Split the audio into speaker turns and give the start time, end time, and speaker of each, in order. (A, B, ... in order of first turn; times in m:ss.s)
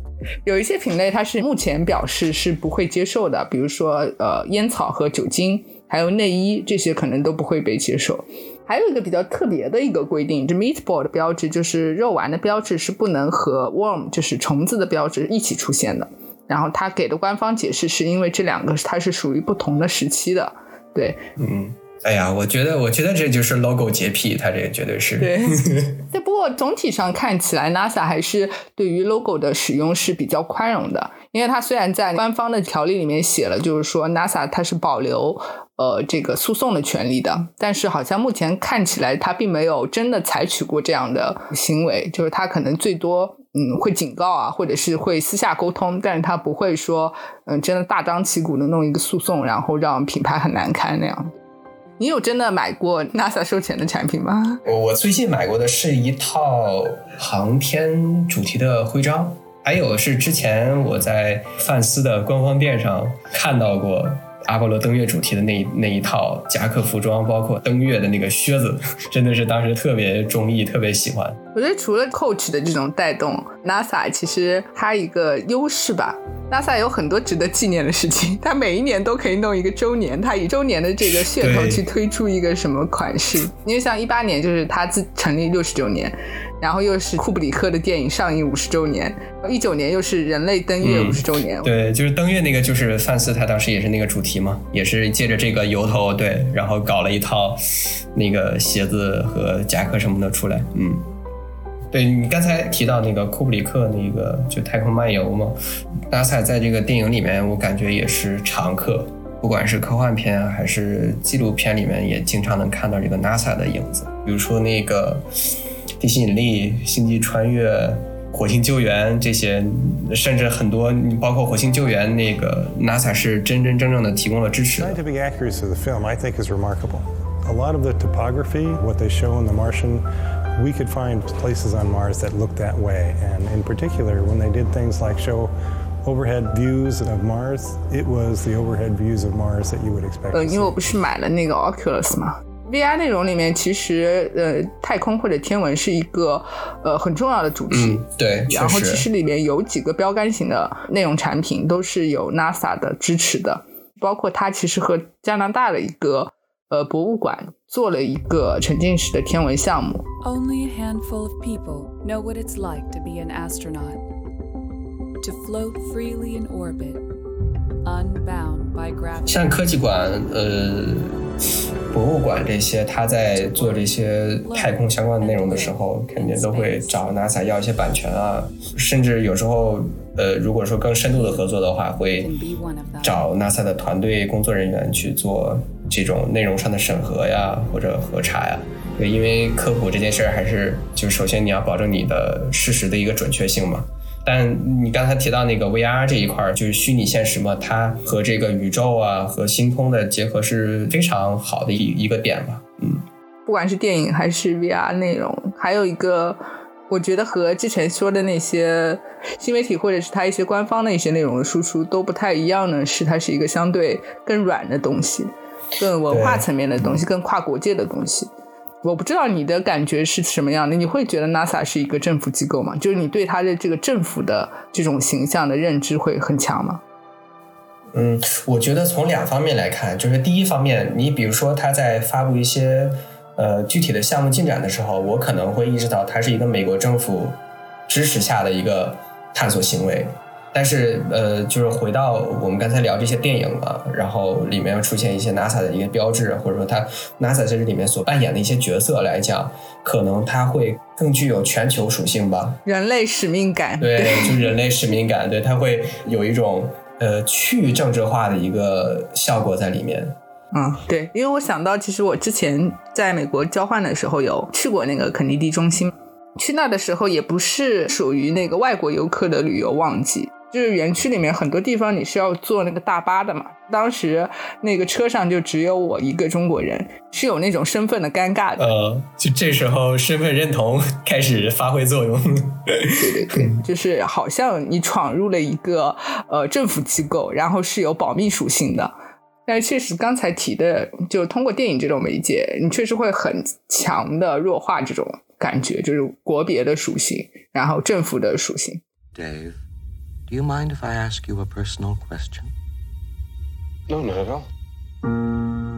0:00.4-0:21.2 A
0:21.4-0:25.9 B
0:25.2-0:25.5 A
0:26.1-0:51.3 A
0:52.0-0:54.6 A
0:54.6-1:11.4 B
1:11.5-1:31.7 A
1:21.0-1:21.8 B
1:30.8-1:37.6 B
1:38.1-1:41.0 B
1:41.9-1:45.6 B
1:46.1-1:55.2 B
1:56.0-2:05.0 B
2:04.8-2:10.0 C
2:10.6-2:15.5 C
2:16.0-2:21.1 C
2:20.3-2:40.0 A
2:27.7-2:29.1 B
2:40.2-2:44.0 D
2:45.2-2:47.0 D
2:47.8-2:50.2 D
2:49.2-2:51.2 B
2:51.9-3:02.3 B
2:53.3-2:57.4 D
3:01.0-3:01.5 D
3:02.1-3:03.3 D
3:03.0-3:23.0 B
3:23.4-3:38.3 A
3:36.1-3:37.0 B
3:38.8-3:46.8 A
3:47.9-4:12.6 B
4:12.6-4:14.5 A
4:13.8-4:20.2 B
4:20.5-4:38.7 A
4:38.6-4:43.5 B
4:43.0-4:48.9 A
4:49.5-4:58.8 A
4:59.1-4:59.6 E
5:00.3-5:02.5 E